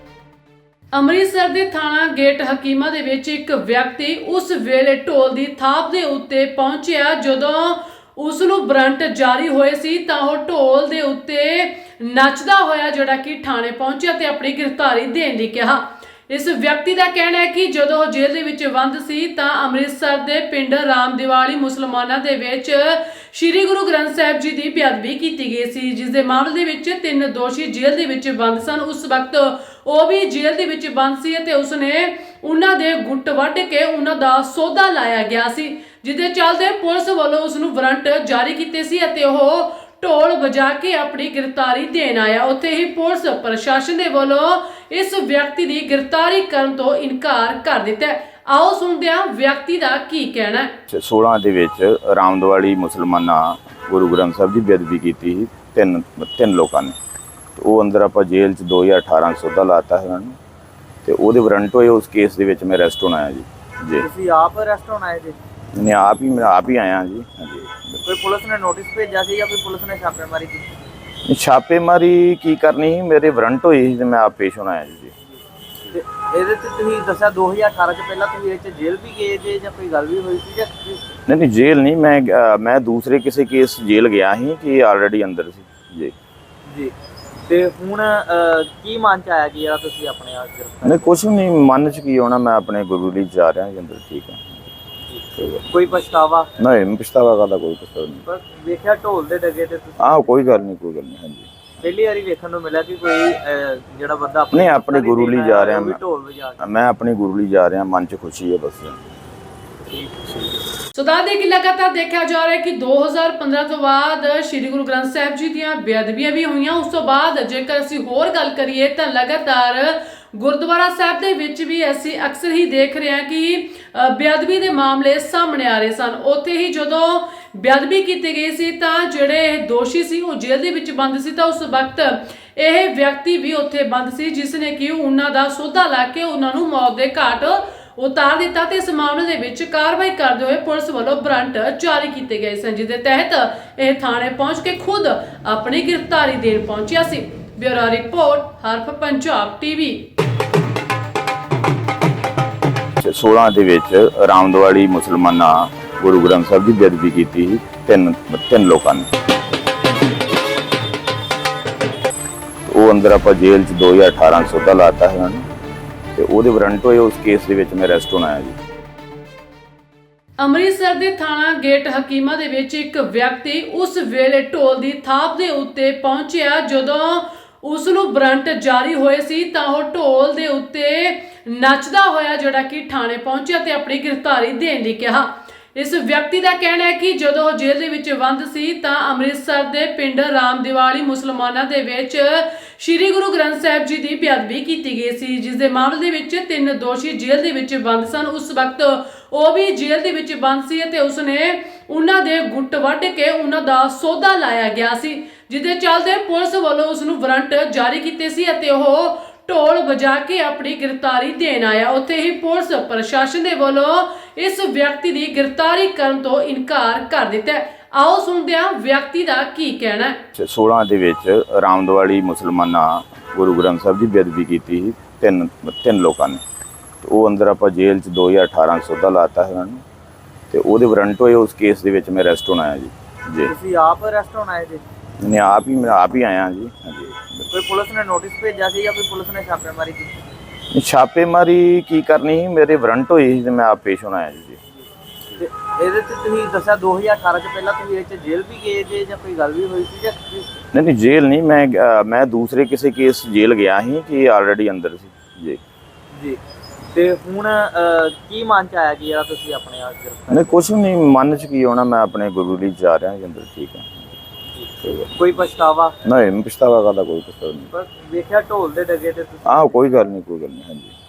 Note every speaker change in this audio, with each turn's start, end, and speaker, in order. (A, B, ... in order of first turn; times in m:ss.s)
0:00.9-0:50.7 A
0:50.9-0:57.0 B
0:57.6-1:00.4 B
1:01.0-1:04.1 B
1:04.0-1:05.4 C
1:05.7-1:08.0 B
1:08.0-1:10.6 C
1:11.3-1:15.1 B
1:15.9-1:21.0 C
1:21.3-1:26.1 B
1:26.7-1:26.9 C
1:27.5-1:31.1 C
1:30.8-1:34.6 B
1:35.1-1:36.5 C
1:35.4-1:35.6 B
1:36.6-1:38.2 B
1:38.2-1:40.3 C
1:40.0-1:41.5 B
1:41.8-1:46.6 C
1:44.5-1:46.0 B
1:46.6-1:49.0 B
1:49.9-1:50.6 C
1:50.9-2:30.1 A
2:33.0-2:39.1 B
2:42.6-2:45.4 B
2:46.1-2:48.6 B
2:50.4-3:40.2 A
3:40.3-3:46.4 B
3:47.0-3:49.8 B
3:50.5-3:53.5 B
3:53.4-3:54.8 C
3:55.2-3:57.5 B
3:57.5-4:00.1 C
4:00.7-4:04.6 B
4:05.4-4:10.5 C
4:10.7-4:15.6 B
4:16.1-4:16.4 C
4:16.9-4:20.5 C
4:20.3-4:24.1 B
4:24.6-4:26.0 C
4:24.8-4:25.1 B
4:26.0-4:27.7 B
4:27.7-4:29.7 C
4:29.4-4:31.0 B